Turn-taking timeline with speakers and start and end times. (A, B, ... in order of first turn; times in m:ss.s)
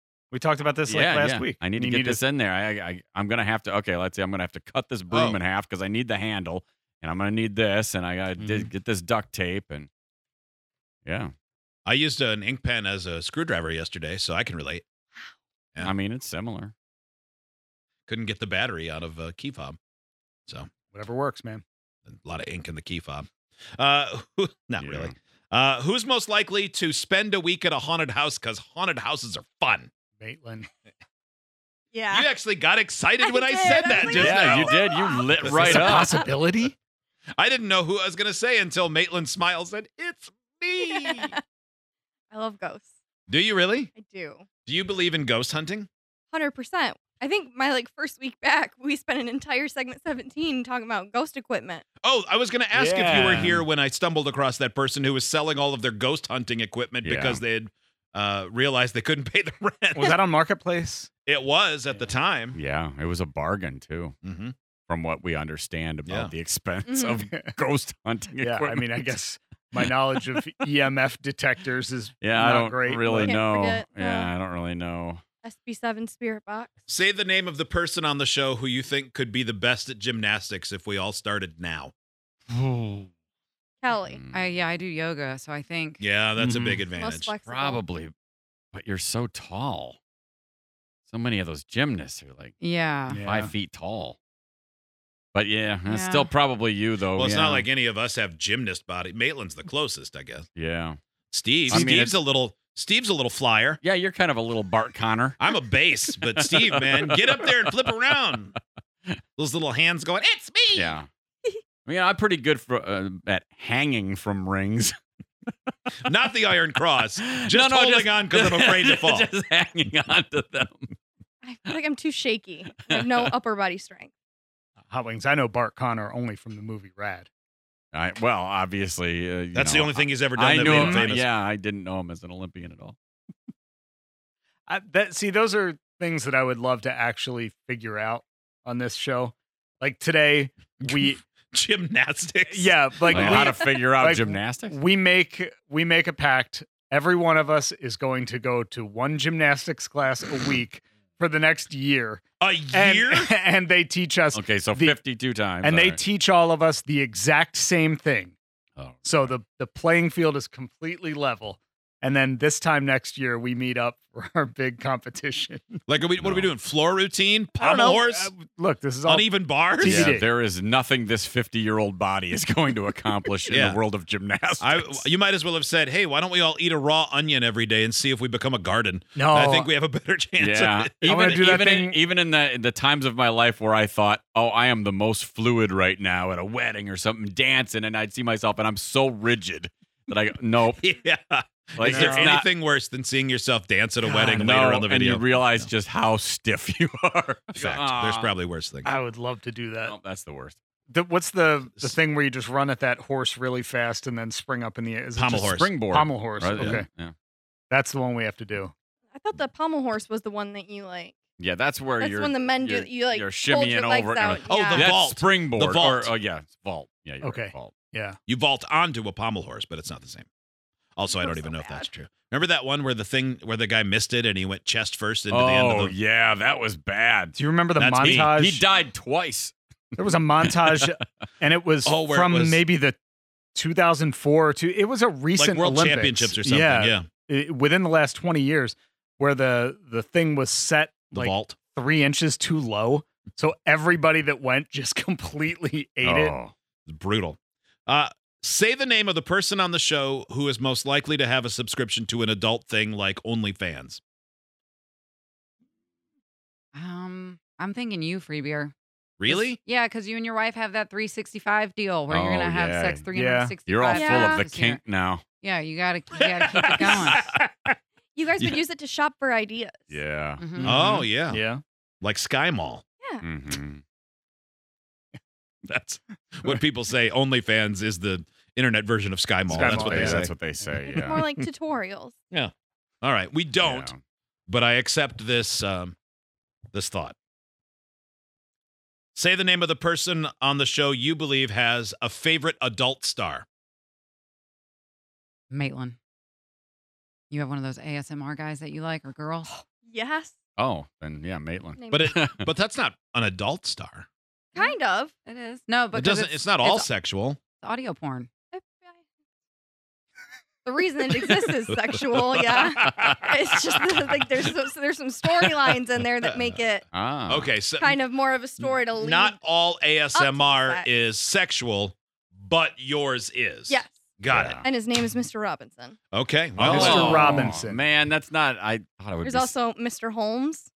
0:00.3-0:02.2 A
0:00.9-0:09.9 B
0:05.1-0:05.4 C
0:08.4-0:08.7 A
0:11.0-0:11.3 B
0:11.8-0:14.8 C
0:15.8-0:16.7 B
0:18.1-0:19.8 C
0:20.9-0:21.6 A
0:22.1-0:29.9 C
0:24.8-0:25.1 B
0:30.2-0:30.7 A
0:31.9-0:32.3 D
0:32.1-0:34.8 C
0:33.2-0:35.4 D
0:34.1-0:36.3 B
0:35.4-0:36.0 C
0:35.4-0:36.7 A
0:37.4-0:41.4 C
0:40.8-0:41.4 D
0:42.3-0:42.9 D
0:43.3-0:43.9 C
0:43.9-0:44.4 D
0:44.6-0:45.9 C
0:46.3-0:51.8 D
0:52.0-1:00.2 C
0:52.7-0:53.5 A
0:53.2-0:53.6 B
0:57.0-0:57.4 B
0:59.9-1:01.1 A
1:01.2-1:02.6 C
1:02.5-1:04.1 B
1:04.2-1:04.5 C
1:04.9-1:09.1 B
1:06.1-1:06.3 C
1:06.9-1:07.3 D
1:08.4-1:13.4 A
1:12.2-1:15.2 B
1:13.1-1:14.3 D
1:15.4-1:16.8 D
1:16.9-1:21.9 C
1:22.5-1:23.1 B
1:23.8-1:24.2 D
1:24.1-1:24.5 B
1:24.3-1:26.8 E
1:26.0-1:27.3 C
1:26.9-1:27.8 D
1:27.4-1:28.1 B
1:28.7-1:30.0 B
1:31.1-1:32.5 B
1:32.6-1:33.2 E
1:33.1-1:33.5 A
1:33.2-1:34.2 B
1:35.3-1:37.7 B
1:35.8-1:36.3 E
1:37.2-1:40.5 C
1:40.6-1:41.0 B
1:41.3-1:43.8 C
1:41.7-1:42.2 B
1:43.8-1:45.5 B
1:45.4-1:48.5 C
1:46.1-1:47.7 B
1:49.4-1:50.9 C
1:50.7-1:51.1 B
1:51.8-1:55.0 B
1:56.0-1:59.3 C
1:57.2-2:00.9 B
2:01.4-2:04.1 D
2:02.8-2:03.3 B
2:04.9-2:07.3 A
2:07.9-2:13.0 B
2:09.5-2:11.3 C
2:10.6-2:11.1 A
2:14.7-2:21.2 A
2:20.8-2:23.5 C
2:22.5-2:35.0 A
2:23.1-2:24.8 B
2:32.4-2:33.3 C
2:34.3-2:36.0 B
2:35.6-2:38.4 A
2:38.8-2:39.3 B
2:39.0-2:45.8 A
2:45.9-2:48.3 C
2:46.2-2:46.5 B
2:47.6-2:50.2 A
2:49.0-2:50.2 C
2:49.8-2:55.0 B
2:53.5-2:53.8 C
2:54.6-3:01.4 C
2:59.2-2:59.7 A
3:00.4-3:10.8 B
3:01.0-3:02.0 A
3:10.8-3:15.7 C
3:11.8-3:12.5 B
3:11.8-3:12.4 A
3:14.0-3:14.5 A
3:14.4-3:18.3 B
3:17.6-3:18.9 C
3:18.8-3:19.9 A
3:19.8-3:20.6 B
3:20.9-3:26.8 A
3:25.2-3:25.7 C
3:25.4-3:27.1 B
3:27.7-3:28.7 A
3:29.1-3:31.2 D
3:31.4-3:37.8 B
3:32.0-3:34.9 D
3:34.5-3:36.1 C
3:37.2-3:38.2 A
3:38.3-3:40.3 C
3:41.0-3:45.9 C
3:41.1-3:41.9 D
3:45.3-3:47.4 B
3:47.4-3:48.6 A
3:47.8-3:48.3 C
3:48.0-3:51.0 B
3:50.0-3:53.0 A
3:51.8-3:52.6 C
3:53.5-4:06.3 A
3:55.4-3:57.1 C
4:01.1-4:01.6 C
4:06.0-4:06.5 B
4:06.8-4:14.0 C
4:16.7-4:18.7 E
4:19.2-4:19.6 C
4:19.3-4:24.8 E
4:22.1-4:23.1 B
4:23.1-4:23.6 A
4:23.6-4:25.2 B
4:23.9-4:24.5 D
4:25.3-4:27.3 E
4:26.1-4:27.7 C
4:28.1-4:30.0 D
4:29.9-4:30.9 B
4:30.4-4:31.1 E
4:30.6-4:31.4 C
4:31.3-4:31.6 A
4:32.0-4:32.8 C
4:33.2-4:33.8 B
4:35.6-4:40.3 C
4:39.5-4:41.2 B
4:39.5-4:40.2 A
4:40.8-4:42.1 D
4:42.3-4:43.9 C
4:43.6-4:44.0 B
4:44.5-4:46.0 C
4:46.7-4:47.2 C
4:49.1-4:53.4 C
4:55.5-4:56.0 E
4:57.3-4:59.6 E
4:59.7-5:00.3 D
5:00.6-5:02.5 B
5:01.8-5:02.1 D
5:01.9-5:04.1 C
5:04.5-5:05.1 D
5:04.6-5:06.8 E
5:05.9-5:07.4 C
5:07.6-5:08.3 E
5:08.5-5:09.0 D
5:10.6-5:16.8 D
5:11.3-5:13.2 C
5:16.2-5:16.6 C
5:16.9-5:17.5 B
5:17.3-5:18.0 C
5:17.8-5:19.4 D
5:18.6-5:24.6 C
5:20.1-5:20.9 D
5:23.7-5:24.0 D
5:24.3-5:24.6 B
5:24.6-5:26.0 D
5:26.1-5:27.5 C
5:26.6-5:27.8 A
5:26.6-5:29.5 B
5:29.2-5:30.7 D